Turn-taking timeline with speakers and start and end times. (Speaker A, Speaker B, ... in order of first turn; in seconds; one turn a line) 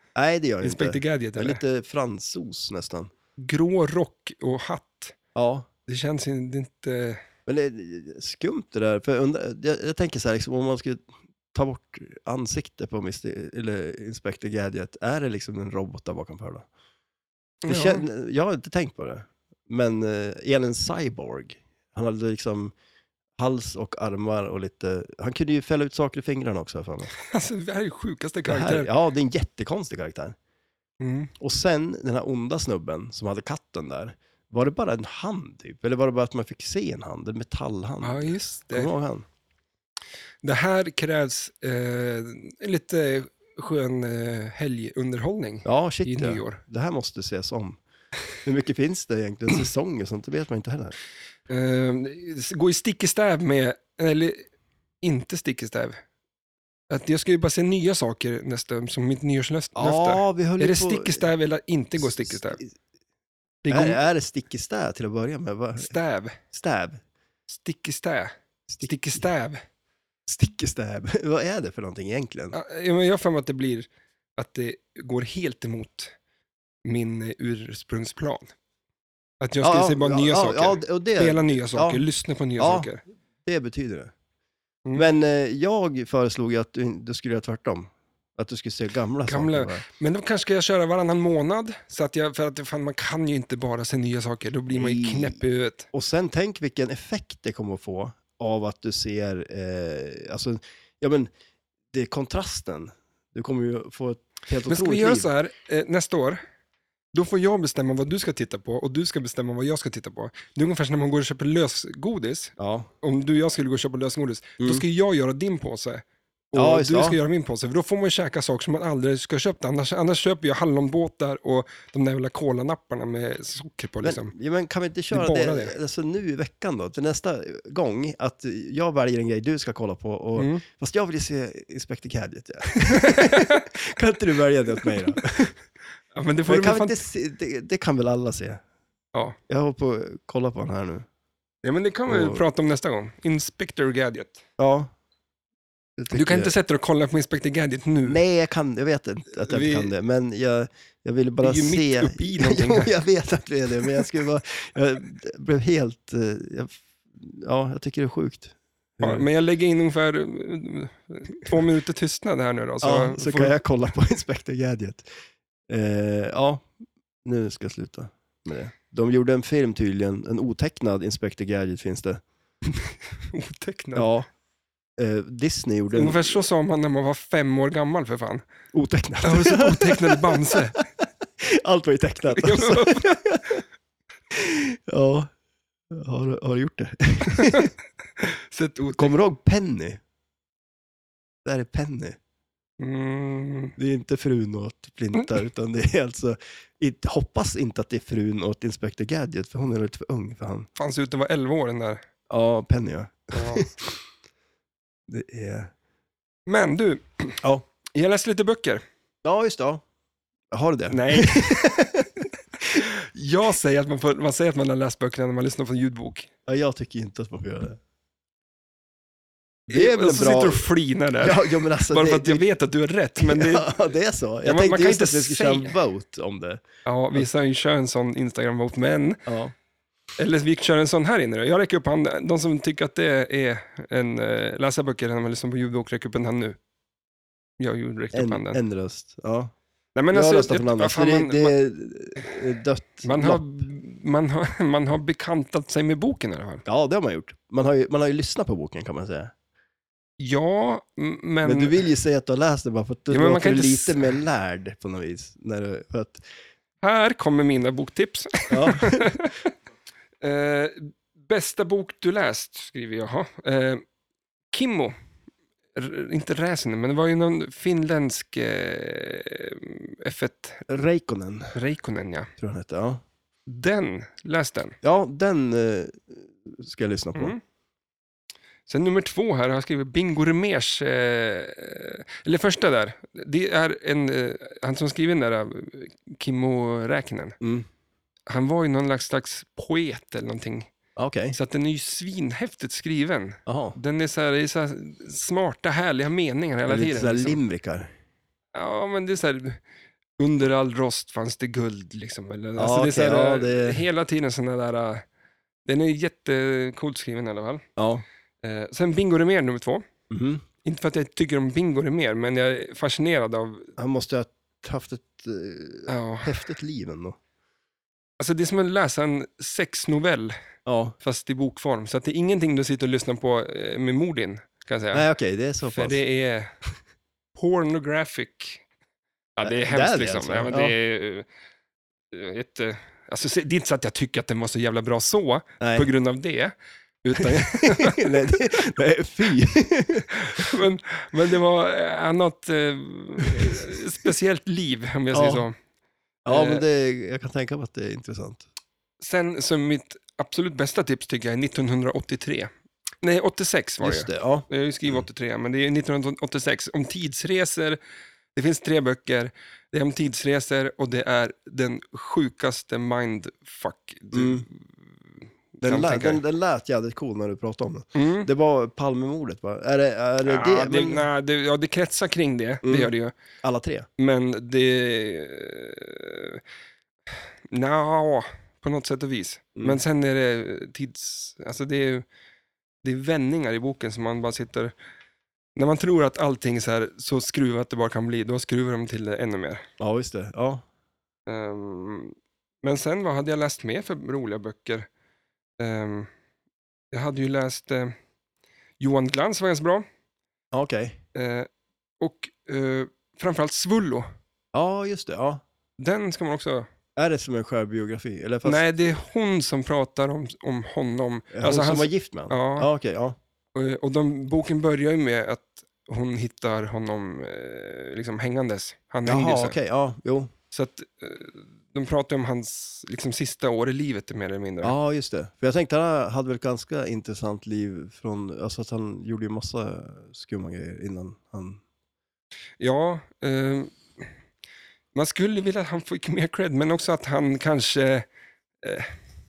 Speaker A: 0.1-3.1
Speaker B: 0.6-1.6
Speaker B: 3.4-5.2
Speaker A: 5.3-5.7
Speaker B: 5.8-7.2
Speaker A: 7.5-16.6
Speaker B: 17.6-18.0
Speaker A: 17.7-22.7
Speaker A: 23.4-27.1
Speaker B: 27.1-28.9
Speaker A: 28.4-30.4
Speaker B: 31.0-31.3
Speaker A: 31.4-39.2
Speaker B: 38.0-38.9
Speaker B: 40.4-46.6
Speaker A: 45.6-47.8
Speaker A: 48.4-51.0
Speaker B: 51.5-54.5
Speaker B: 55.0-56.0
Speaker B: 56.9-62.6
Speaker A: 59.8-61.2
Speaker A: 62.0-62.7
Speaker B: 63.6-64.0
Speaker A: 63.7-65.9
Speaker B: 65.8-66.4
Speaker A: 66.5-67.0
Speaker B: 67.5-69.6
Speaker A: 70.3-72.5
Speaker B: 72.5-76.1
Speaker B: 76.8-78.5
Speaker B: 79.4-83.0
Speaker A: 79.6-82.0
Speaker A: 82.6-82.9
Speaker A: 83.4-84.1
Speaker A: 84.9-89.8
Speaker B: 89.2-95.9
Speaker A: 94.7-95.4
Speaker A: 95.9-101.3
Speaker A: 101.9-105.3
Speaker B: 104.7-106.4
Speaker B: 107.1-124.3
Speaker A: 112.6-112.9
Speaker A: 116.5-117.2
Speaker A: 124.0-135.6
Speaker B: 125.1-125.8
Speaker B: 130.3-130.6
Speaker B: 132.9-133.7
Speaker B: 136.1-137.0
Speaker A: 136.5-138.6
Speaker A: 139.5-141.1
Speaker B: 141.6-144.4
Speaker A: 142.1-142.4
Speaker A: 144.6-144.9
Speaker A: 146.0-146.5
Speaker B: 146.1-148.2
Speaker A: 148.0-159.2
Speaker B: 149.5-149.9
Speaker B: 151.4-152.9
Speaker B: 159.0-163.6
Speaker A: 162.8-165.1
Speaker A: 165.7-166.7
Speaker A: 167.2-172.2
Speaker B: 173.2-174.1
Speaker A: 173.9-174.3
Speaker A: 175.0-176.4
Speaker B: 175.9-178.4
Speaker A: 178.7-180.8
Speaker B: 179.2-180.8
Speaker A: 181.4-183.6
Speaker B: 182.3-183.6
Speaker A: 184.3-185.3
Speaker A: 185.9-187.7
Speaker B: 187.3-189.1
Speaker A: 188.9-190.0
Speaker A: 191.4-192.2
Speaker B: 192.8-193.8
Speaker A: 193.8-200.7
Speaker B: 200.8-202.0
Speaker A: 202.3-204.0
Speaker B: 203.3-203.7
Speaker A: 205.1-205.7
Speaker B: 206.5-207.4
Speaker B: 207.9-208.8
Speaker A: 209.2-209.8
Speaker A: 210.5-212.1
Speaker B: 210.9-211.8
Speaker B: 212.7-216.3
Speaker A: 216.5-217.8
Speaker A: 219.7-222.4
Speaker B: 219.7-223.8
Speaker A: 223.2-227.3
Speaker B: 224.4-225.8
Speaker B: 226.8-229.2
Speaker A: 229.3-229.5
Speaker B: 230.2-236.6
Speaker B: 237.6-238.6
Speaker A: 238.1-239.5
Speaker B: 239.9-241.5
Speaker A: 240.1-243.4
Speaker B: 243.0-246.6
Speaker A: 246.7-249.3
Speaker B: 250.2-251.8
Speaker A: 251.4-256.2
Speaker B: 253.1-254.2
Speaker B: 256.8-259.5
Speaker A: 258.5-259.2
Speaker B: 260.2-263.8
Speaker B: 264.5-264.9
Speaker B: 265.7-270.7
Speaker A: 270.7-271.6
Speaker B: 271.5-272.3
Speaker A: 272.4-273.0
Speaker B: 273.5-274.8
Speaker A: 274.8-277.3
Speaker B: 277.1-277.4
Speaker B: 278.7-287.4
Speaker A: 287.4-287.7
Speaker B: 288.3-290.7
Speaker A: 290.9-291.4
Speaker B: 291.3-297.4
Speaker A: 293.4-293.8
Speaker A: 296.7-297.9
Speaker B: 298.5-299.6
Speaker B: 300.2-305.0
Speaker A: 302.6-303.8
Speaker B: 305.6-307.6
Speaker A: 307.8-308.0
Speaker B: 308.4-309.8
Speaker A: 310.1-310.4
Speaker B: 310.6-313.7
Speaker A: 313.8-317.2
Speaker B: 315.9-316.4
Speaker B: 318.2-320.3
Speaker A: 320.6-320.9
Speaker B: 321.0-325.1
Speaker A: 324.9-326.0
Speaker B: 325.7-326.5
Speaker B: 327.3-328.6
Speaker B: 329.4-331.2
Speaker A: 329.4-330.7
Speaker B: 332.1-338.3
Speaker A: 335.6-335.9
Speaker A: 337.2-340.5
Speaker B: 340.1-345.5
Speaker A: 345.1-345.4
Speaker A: 346.2-348.4
Speaker B: 346.3-346.6
Speaker B: 349.0-352.5
Speaker B: 353.0-357.8
Speaker A: 353.8-355.0
Speaker B: 358.3-364.6
Speaker A: 364.1-364.4
Speaker B: 365.6-366.2
Speaker A: 365.6-371.1
Speaker B: 367.9-368.3
Speaker B: 370.2-373.1
Speaker A: 372.6-373.9
Speaker B: 374.0-376.4
Speaker B: 377.5-382.0
Speaker A: 379.6-379.8
Speaker B: 382.8-384.7
Speaker B: 385.6-389.6
Speaker A: 389.8-390.6
Speaker B: 391.3-394.9
Speaker B: 395.6-396.1
Speaker B: 396.9-397.9
Speaker B: 398.8-399.8
Speaker A: 400.5-401.0
Speaker B: 401.1-401.5
Speaker B: 402.0-404.1
Speaker A: 404.5-405.4
Speaker B: 405.8-406.7
Speaker A: 406.9-408.6
Speaker B: 408.4-412.7
Speaker A: 411.3-413.2
Speaker B: 413.5-419.6
Speaker A: 419.1-420.3
Speaker B: 420.5-424.7
Speaker A: 424.6-431.6
Speaker B: 432.6-434.0
Speaker B: 434.9-438.1
Speaker B: 438.6-438.9